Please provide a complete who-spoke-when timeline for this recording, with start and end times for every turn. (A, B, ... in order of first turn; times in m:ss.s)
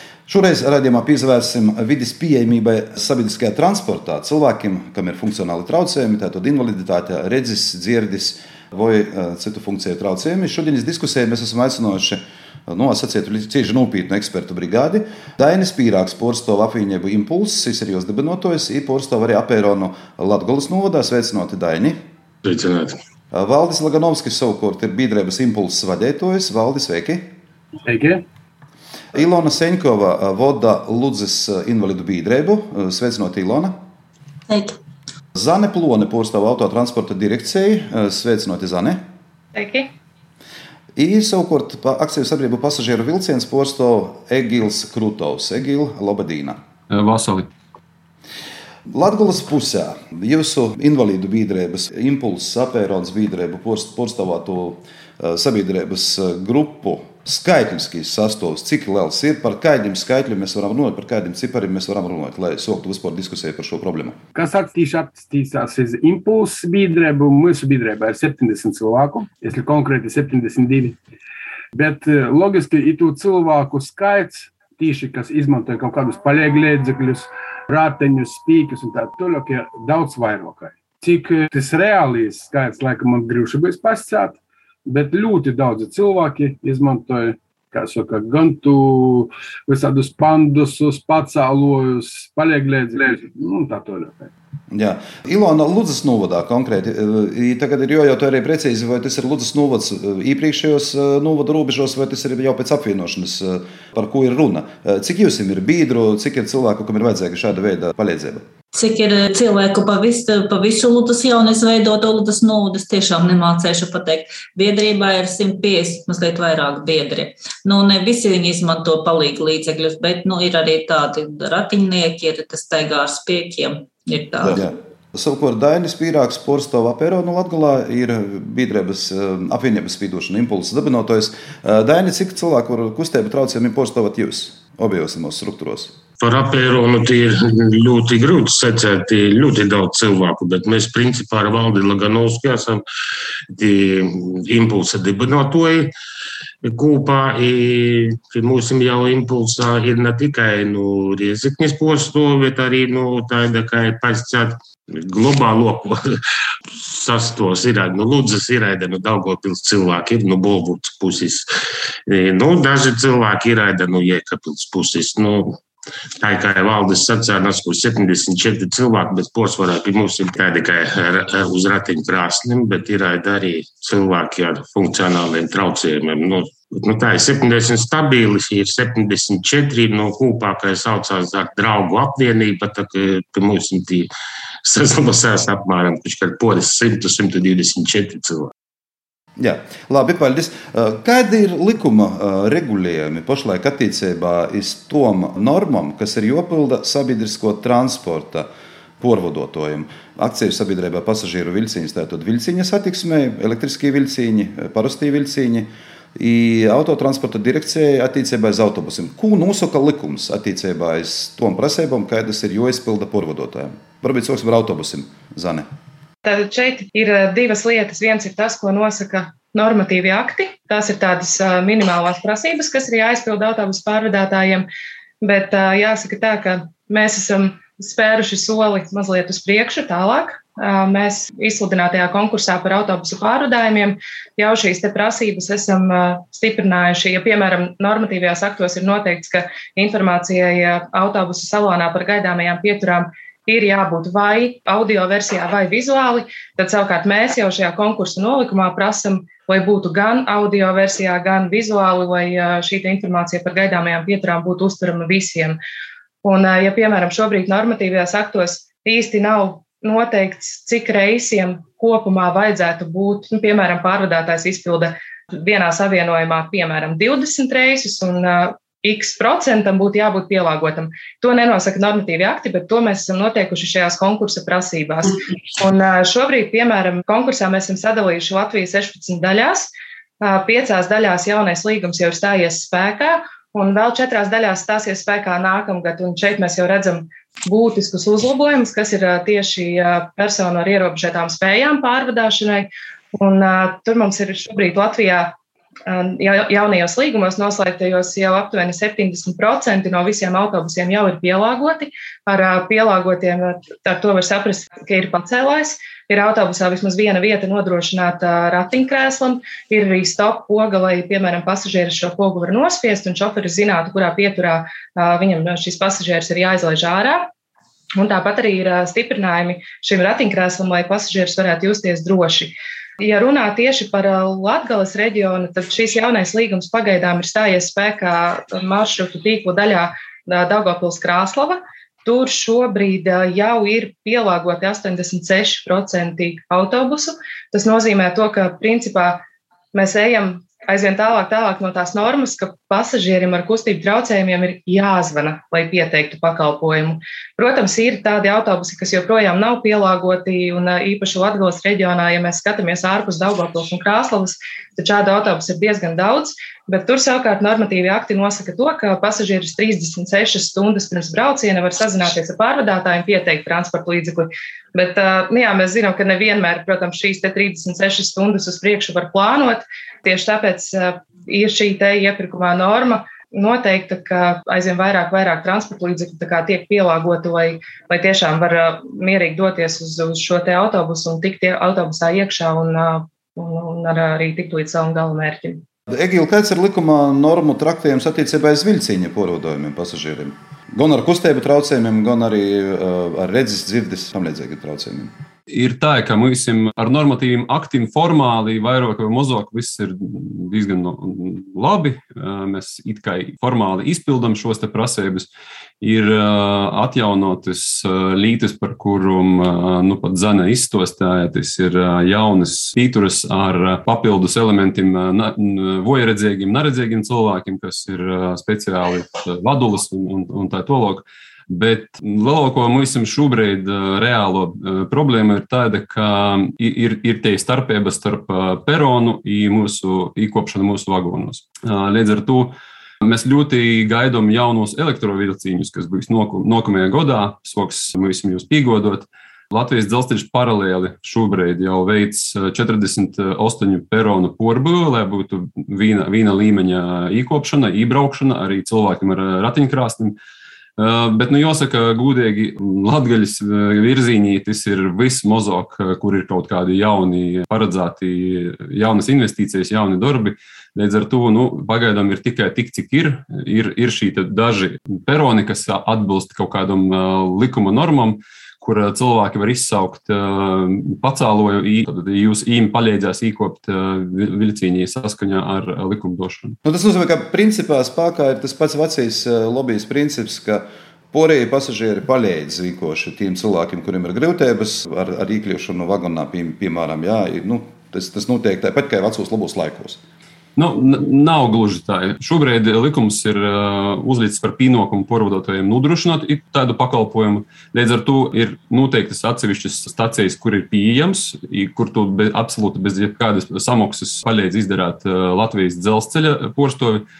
0:00.3-0:22.0 A
0:22.4-0:23.0 B
0:23.3-0:27.3 A
0:27.8-0:28.2 C
0:29.1-0:33.8 A
0:35.3-0:39.0 A
0:39.5-0:39.9 D
0:41.0-0:46.6 A
0:46.9-0:47.5 E
0:48.9-1:04.2 A
1:04.3-1:11.0 C
1:11.7-1:34.3 C
1:34.7-1:48.4 A
1:48.7-2:04.6 F
2:04.4-2:16.0 A
2:16.2-2:22.8 B
2:23.5-2:25.9 B
2:26.6-2:41.5 B
2:42.1-2:45.6 B
2:46.2-3:04.1 B
3:04.6-3:08.5 B
3:09.4-3:18.5 A
3:19.0-3:35.7 A
3:36.2-3:44.7 D
3:45.2-4:15.6 D
4:16.2-4:39.7 D
4:40.2-4:55.3 D
4:55.9-5:17.3 D
5:18.0-5:39.2 D
5:39.7-6:25.6 D
6:25.9-6:35.1 A
6:35.5-6:45.3 E
6:45.8-7:30.2 E
7:30.8-7:56.6 E
7:56.6-8:10.0 A
8:10.6-8:27.0 E